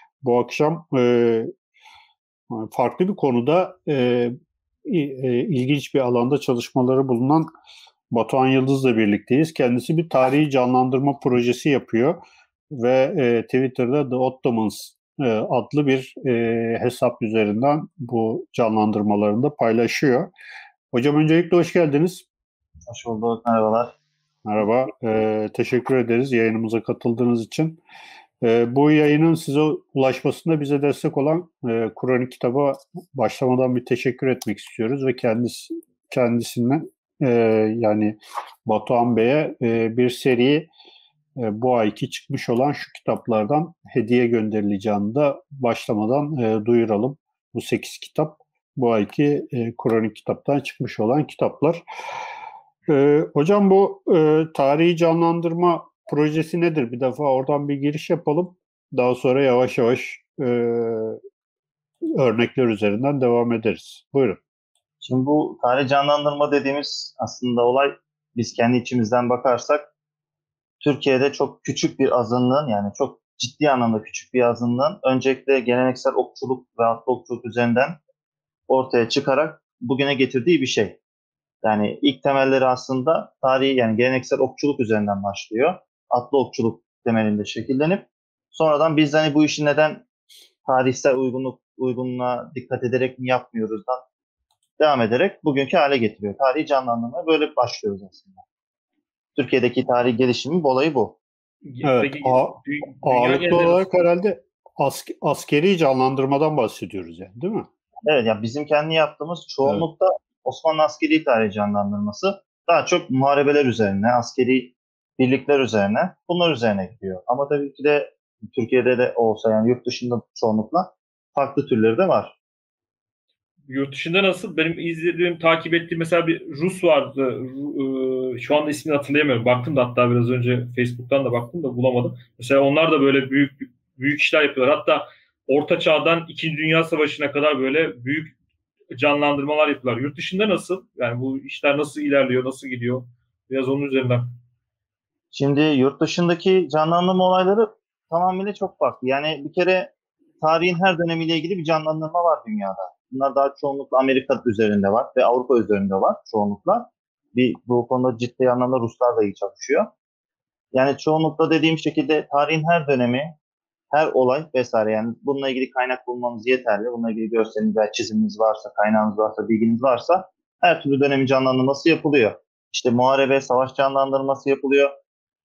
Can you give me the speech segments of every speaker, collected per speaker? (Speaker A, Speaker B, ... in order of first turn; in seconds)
Speaker A: 0.2-1.5, 2.5-7.5, 8.1-12.2, 12.7-20.3, 20.9-22.2, 24.4-27.8, 28.4-40.7, 41.4-51.8, 52.9-61.2, 62.1-64.4, 101.8-107.7
Speaker B: 22.9-23.9, 65.0-69.9, 70.8-78.0, 78.7-81.0, 81.6-90.0, 90.7-94.0, 94.8-98.4, 99.3-101.2, 108.0-122.3, 145.3-149.9, 150.4-159.9, 160.7-163.3, 163.9-174.9
Speaker C: 101.6-103.9, 123.7-138.3, 138.9-144.3